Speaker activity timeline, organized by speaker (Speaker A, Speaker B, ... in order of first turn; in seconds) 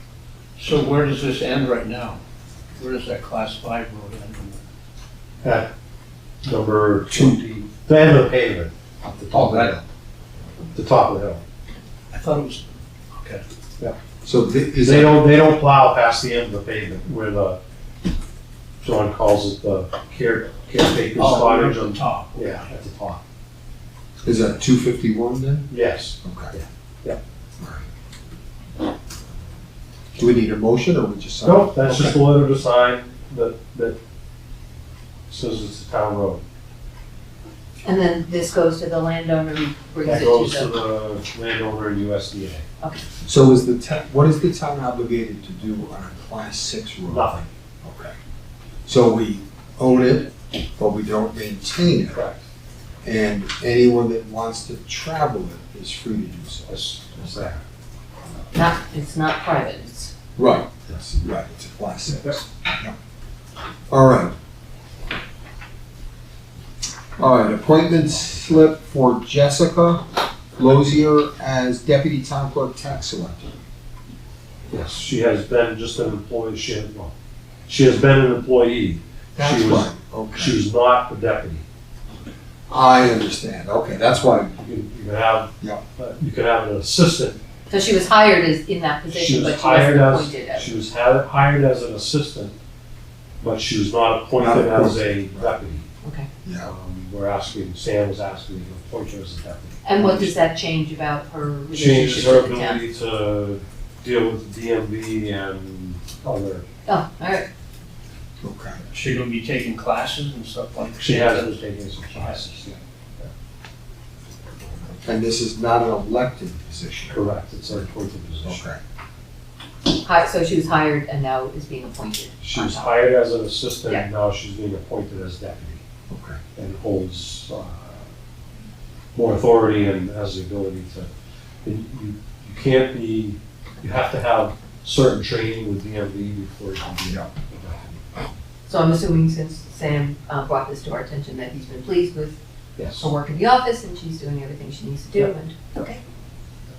Speaker A: 0.6-2.2, 2.8-4.6, 9.3-9.7, 12.1-13.4, 21.2-22.7, 108.9-111.6
Speaker B: 5.4-5.7, 6.4-9.8, 10.7-11.4, 14.8-17.6, 18.8-23.2, 25.7-27.2, 31.4-34.0, 35.3-36.4, 40.0-42.6, 47.1-47.5, 52.1-52.4, 56.7-57.6, 74.7-77.1, 77.7-81.6, 84.5-87.4, 89.1-92.5, 93.4-95.9, 96.6-100.3, 101.7-106.6, 111.0-113.3, 117.1-118.6, 122.4-125.8, 126.5-128.1, 129.1-131.1, 131.6-138.0, 142.8-143.1
Speaker C: 7.1-7.4, 14.2-15.2, 24.2-25.7, 26.2-26.5, 27.6-27.8, 30.1-32.2, 43.2-48.1, 48.9-52.2, 53.0-57.5, 60.4-62.9, 63.9-64.3, 67.2-70.0, 70.6-73.5, 79.3-80.5, 82.7-84.5, 94.4-95.5, 96.4-96.7, 108.4-108.8, 114.9-117.2, 118.4-118.8, 126.1-126.4
Speaker D: 37.8-40.7, 42.8-43.0, 58.5-60.1, 87.7-90.7, 96.0-96.3, 99.8-102.8, 106.8-107.5, 119.9-122.9, 138.7-142.4, 142.9-146.0